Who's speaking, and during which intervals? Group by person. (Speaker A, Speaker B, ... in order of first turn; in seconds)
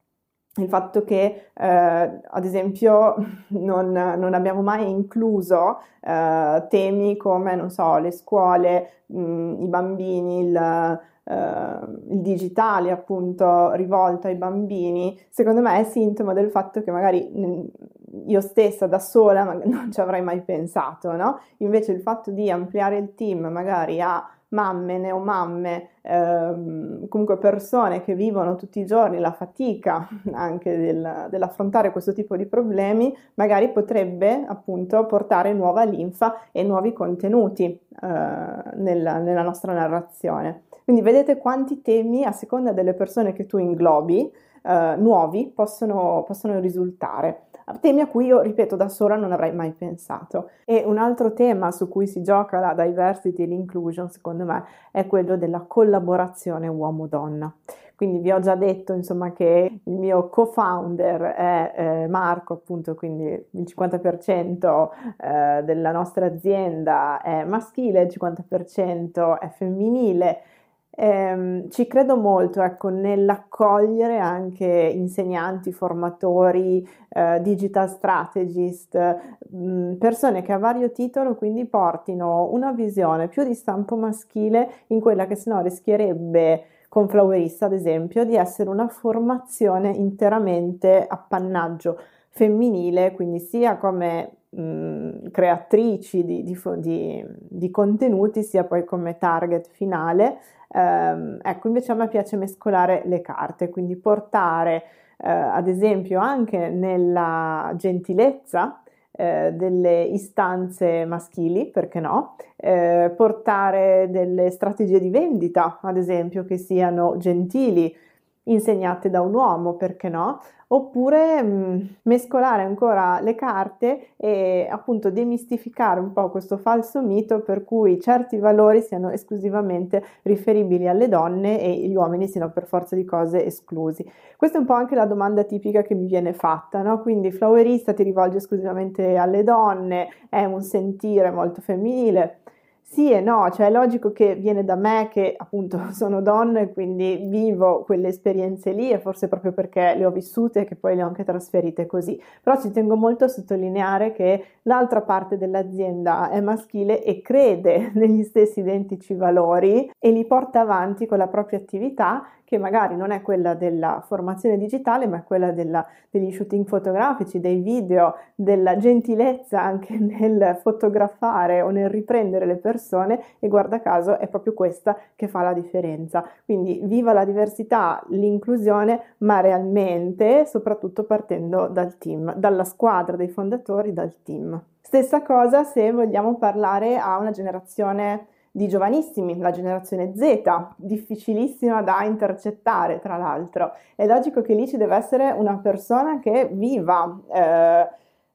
Speaker A: 0.6-197.9